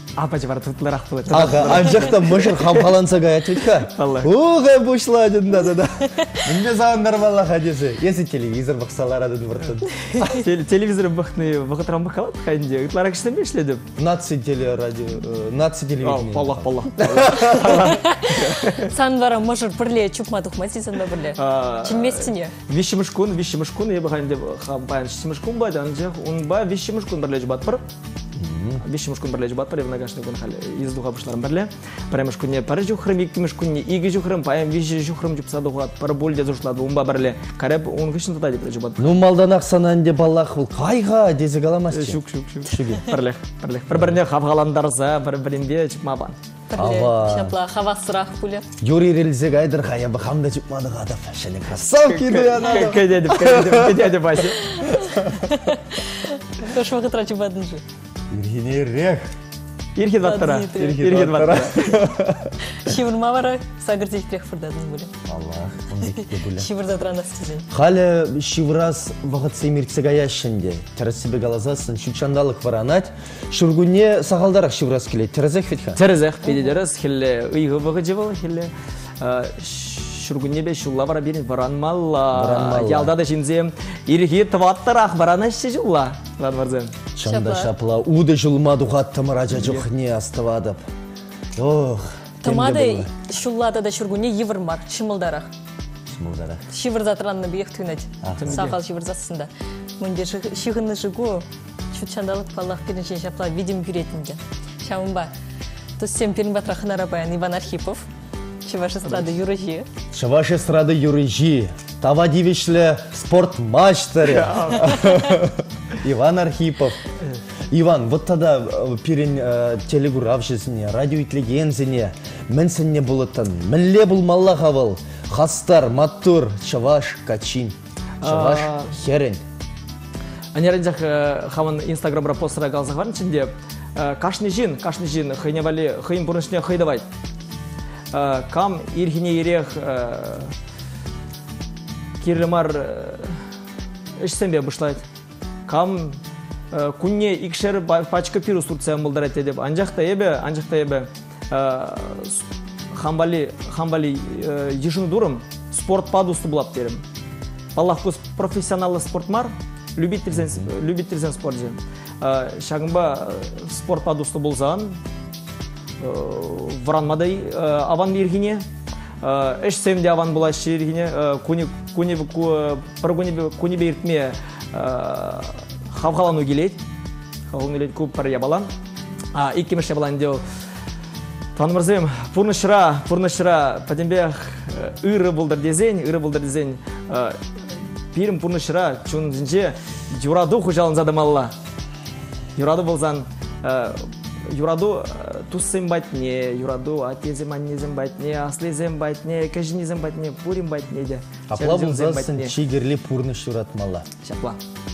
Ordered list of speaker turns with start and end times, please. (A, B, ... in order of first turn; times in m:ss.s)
0:00.2-0:03.0 A
0:01.3-0:10.4 B
0:03.6-0:04.3 A
0:10.2-0:13.8 A
0:14.0-0:17.7 B
0:16.0-0:18.9 A
0:17.5-0:22.5 C
0:21.3-0:27.8 A
0:28.4-0:28.8 B
0:28.8-0:39.0 A
0:39.0-0:43.1 B
0:41.9-0:46.4 A
0:43.9-0:44.2 B
0:46.7-0:48.6 C
0:46.8-0:47.6 B
0:48.8-0:54.1 B
0:51.8-0:54.7 A
0:52.6-0:52.9 C
0:54.6-0:57.8 C
0:54.8-0:55.4 B
0:58.3-0:59.3 B
1:00.0-1:02.0 A
1:00.2-1:01.0 C
1:00.8-1:02.6 B
1:02.7-1:05.1 C
1:05.2-1:06.7 B
1:06.0-1:07.6 C
1:07.7-1:16.0 B
1:16.0-1:26.9 A
1:16.4-1:16.8 C
1:22.3-1:23.1 B
1:27.2-1:30.8 B
1:27.2-1:27.7 C
1:29.5-1:29.8 A
1:31.6-1:33.1 B
1:32.4-1:35.5 C
1:36.1-1:36.6 B
1:36.7-1:45.3 C
1:38.2-1:38.6 B
1:38.4-1:38.8 A
1:46.0-1:48.1 C
1:48.6-1:49.9 C
1:49.0-1:49.4 A
1:50.1-1:57.0 B
1:54.2-1:55.3 A
1:57.7-2:09.4 B
2:08.2-2:08.9 A
2:10.5-2:17.0 A
2:18.1-2:20.5 A
2:22.2-2:23.4 A
2:24.2-2:25.0 A
2:25.7-2:26.2 A
2:26.7-2:37.0 A
2:37.8-2:45.0 A
2:40.3-2:40.7 B
2:46.0-2:48.6 A
2:49.2-2:56.8 A
2:57.5-2:58.7 A
2:59.3-3:00.4 A
3:01.6-3:07.4 A
3:08.1-3:11.5 A
3:12.6-3:22.5 A
3:21.5-3:24.1 B
3:24.2-3:24.6 A